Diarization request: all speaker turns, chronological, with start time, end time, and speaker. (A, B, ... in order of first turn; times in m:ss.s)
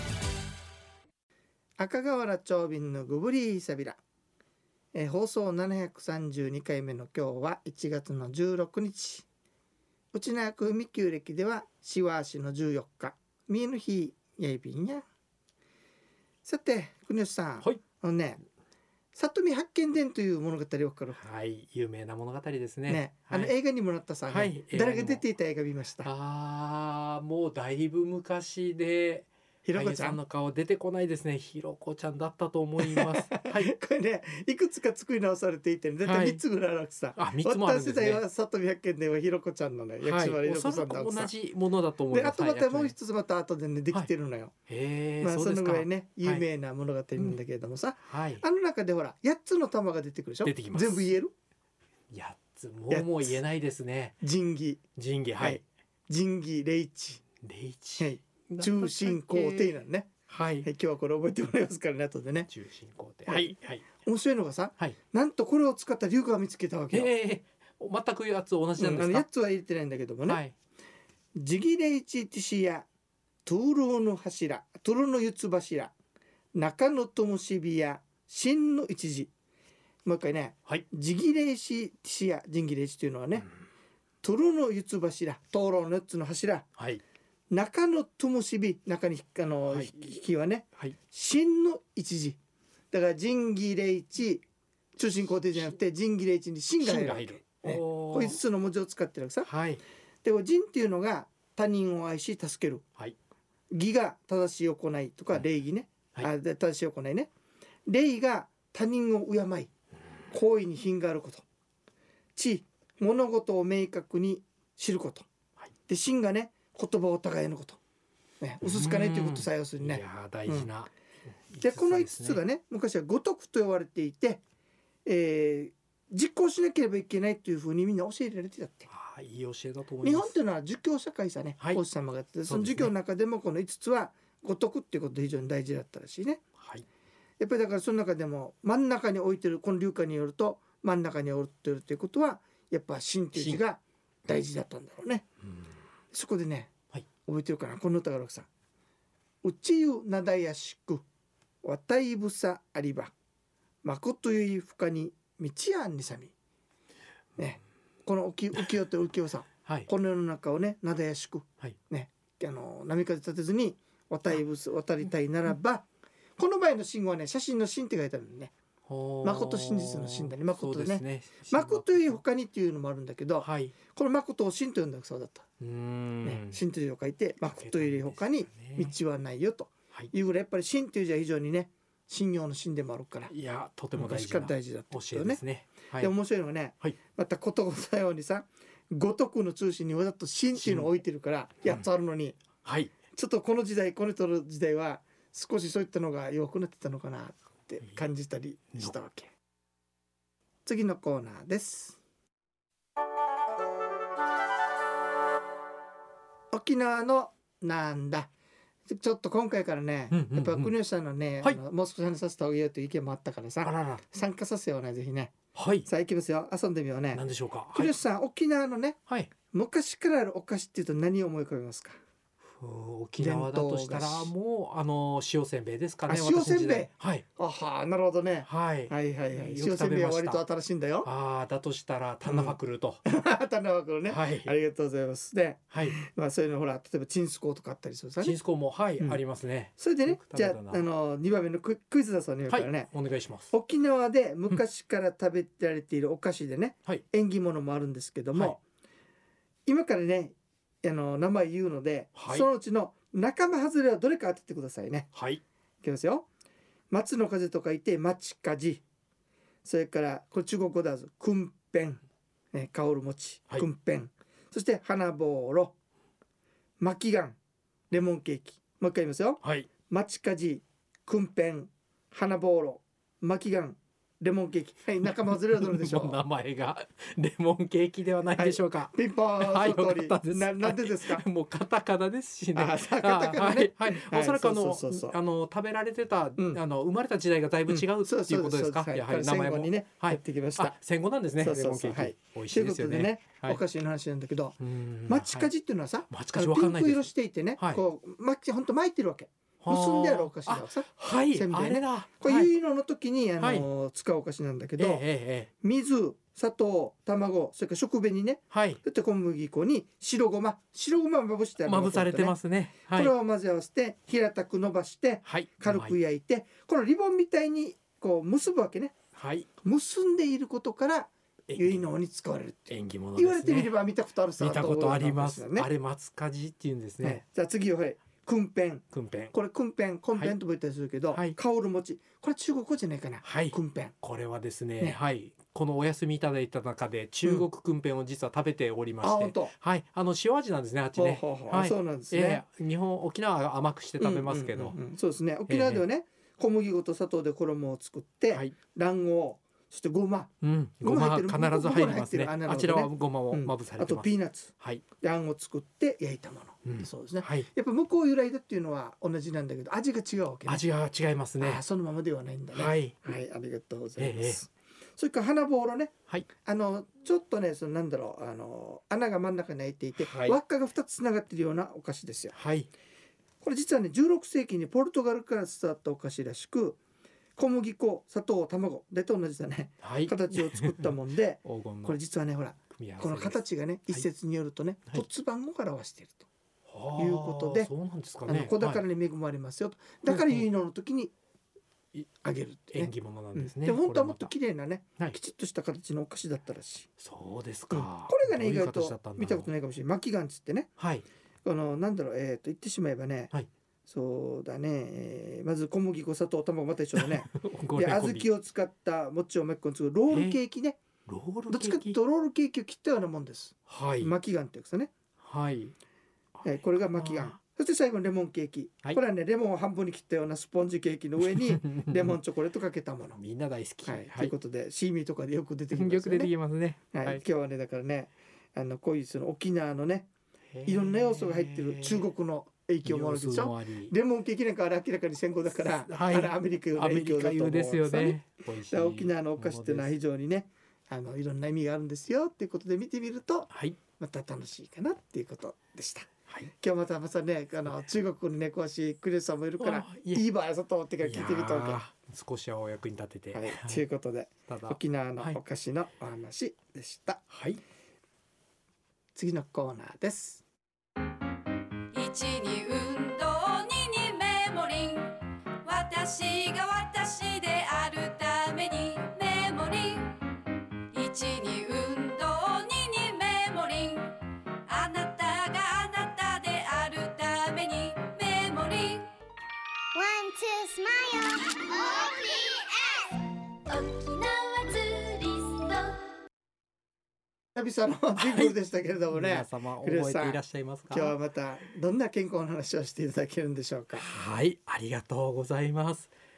0:01.8-0:04.0 A
0:04.9-0:09.2 A
0:10.1-0:15.0 A
0:16.4-0:18.4 A
0:19.1-0:21.2 A
0:21.1-0:23.5 B
0:22.9-0:26.1 A
0:24.3-0:25.2 B
0:26.0-0:33.7 B
0:29.6-0:30.2 A
0:32.8-0:41.3 A
0:36.0-0:36.4 B
0:37.2-0:38.2 B
0:40.0-0:42.9 B
0:42.1-0:44.5 A
0:44.7-0:46.4 B
0:45.2-0:51.3 A
0:48.0-0:48.4 B
0:50.4-0:51.1 B
0:52.1-0:54.2 B
0:52.9-0:53.4 A
0:54.2-0:54.8 A
0:55.0-0:55.6 B
0:55.4-0:57.2 A
0:57.4-0:59.7 B
0:58.0-1:00.1 A
1:00.3-1:00.7 B
1:00.6-1:02.5 A
1:02.5-1:03.9 B
1:03.3-1:07.1 A
1:06.9-1:09.2 B
1:08.8-1:10.4 A
1:10.3-1:10.5 B
1:11.3-1:12.8 A
1:13.4-1:15.9 A
1:16.5-1:19.3 A
1:20.0-1:23.5 A
1:24.2-1:26.7 A
1:26.8-1:27.0 B
1:27.5-1:32.4 A
1:29.7-1:30.1 B
1:32.9-1:34.4 A
1:35.0-1:39.5 A
1:36.8-1:38.4 B
1:39.4-1:39.8 B
1:40.2-1:42.8 A
1:43.7-1:47.3 A
1:47.9-1:49.7 A
1:50.3-1:51.4 A
1:52.4-1:55.3 A
1:55.9-1:57.8 A
1:58.4-2:00.7 A
1:58.6-2:00.9 B
2:01.5-2:02.4 B
2:01.6-2:04.4 A
2:05.0-2:08.9 A
2:08.9-2:10.3 B
2:10.0-2:16.4 A
2:12.5-2:12.9 B
2:17.4-2:25.2 A
2:23.3-2:23.6 B
2:26.1-2:26.7 A
2:27.2-2:28.5 A
2:29.4-2:31.0 A
2:31.6-2:33.1 A
2:33.8-2:36.3 A
2:37.4-2:48.5 A
2:48.9-2:52.2 B
2:49.2-2:55.4 A
2:53.4-2:53.7 B
2:55.6-2:56.6 B
2:56.2-3:03.3 A
2:57.6-2:58.9 B
3:03.3-3:06.1 B
3:03.9-3:05.4 A
3:06.0-3:12.4 A
3:10.5-3:10.9 B
3:12.6-3:12.9 B
3:13.1-3:19.3 A
3:20.6-3:22.0 A
3:26.5-3:28.3 A
3:28.9-3:39.0 A
3:30.1-3:30.7 B
3:33.6-3:34.0 B
3:35.5-3:35.9 B
3:37.1-3:37.9 B
3:39.5-3:42.0 A
3:42.6-3:47.2 B
3:43.2-3:44.3 A
3:46.1-3:51.1 A
3:48.4-3:50.4 B
3:51.0-3:53.0 B
3:52.2-3:58.4 A
3:54.1-3:54.5 B
3:58.2-4:00.8 B
3:59.8-4:02.9 A
4:02.5-4:03.5 B
4:03.5-4:08.6 A
4:09.6-4:15.1 A
4:12.1-4:12.5 B
4:15.1-4:15.4 B
4:15.8-4:16.3 A
4:16.9-4:18.8 A
4:19.6-4:22.0 A
4:22.5-4:25.7 A
4:26.8-4:27.4 A
4:27.9-4:36.2 A
4:29.4-4:29.7 B
4:35.3-4:53.6 B
4:38.4-4:41.2 A
4:42.5-4:45.2 A
4:47.7-4:50.8 A
4:51.4-5:05.0 A
4:54.6-4:55.5 B
4:56.1-4:57.8 B
4:59.6-5:02.5 B
5:03.4-5:03.6 B
5:04.8-5:05.5 B
5:05.6-5:12.3 A
5:08.5-5:08.8 B
5:11.6-5:13.1 B
5:12.9-5:18.9 A
5:15.2-5:16.0 B
5:19.1-5:19.5 B
5:19.6-5:25.7 A
5:21.5-5:21.8 B
5:22.7-5:23.8 B
5:24.4-5:27.2 B
5:27.0-5:33.9 A
5:28.9-5:29.3 B
5:31.1-5:31.4 B
5:33.2-5:44.8 B
5:39.0-5:39.5 A
5:41.0-5:42.4 A
5:44.0-6:00.6 A
5:45.5-5:45.8 B
5:50.4-5:54.8 B
5:56.6-5:57.5 B
6:00.4-6:01.6 B
6:01.4-6:12.3 A
6:02.5-6:03.0 B
6:04.0-6:04.4 B
6:10.0-6:10.4 B
6:12.3-6:12.7 B
6:13.4-6:16.8 A
6:17.4-6:26.3 A
6:19.8-6:20.9 B
6:21.4-6:22.0 B
6:22.7-6:24.0 B
6:26.7-6:28.8 B
6:27.0-6:27.7 A
6:28.3-6:31.1 A
6:30.1-6:30.5 B
6:32.1-6:36.9 A
6:32.7-6:34.3 B
6:37.0-6:39.5 B
6:37.7-6:40.7 A
6:40.8-6:41.0 B
6:41.4-6:43.3 A
6:43.9-6:50.8 A
6:46.9-6:48.3 B
6:50.1-6:50.4 B
6:51.0-6:52.0 B
6:51.5-6:54.9 A
6:53.7-6:54.1 B
6:55.2-6:55.7 B
6:56.4-6:57.4 B
6:56.4-7:03.2 A
7:01.2-7:02.2 B
7:03.2-7:04.3 B
7:03.8-7:06.3 A
7:05.7-7:07.2 B
7:06.9-7:10.1 A
7:10.5-7:12.0 B
7:10.6-7:18.2 A
7:12.8-7:13.9 B
7:15.5-7:20.0 B
7:18.7-7:31.8 A
7:23.5-7:23.8 B
7:29.6-7:30.2 B
7:31.0-7:33.8 B
7:33.3-7:37.2 A
7:34.5-7:35.4 B
7:37.3-7:37.6 B
7:39.1-7:40.4 A
7:41.9-7:50.2 C
7:50.9-7:59.1 C
7:59.9-8:06.0 D
8:07.5-8:14.0 A
8:08.2-8:08.6 B
8:09.1-8:11.2 B
8:13.9-8:16.1 B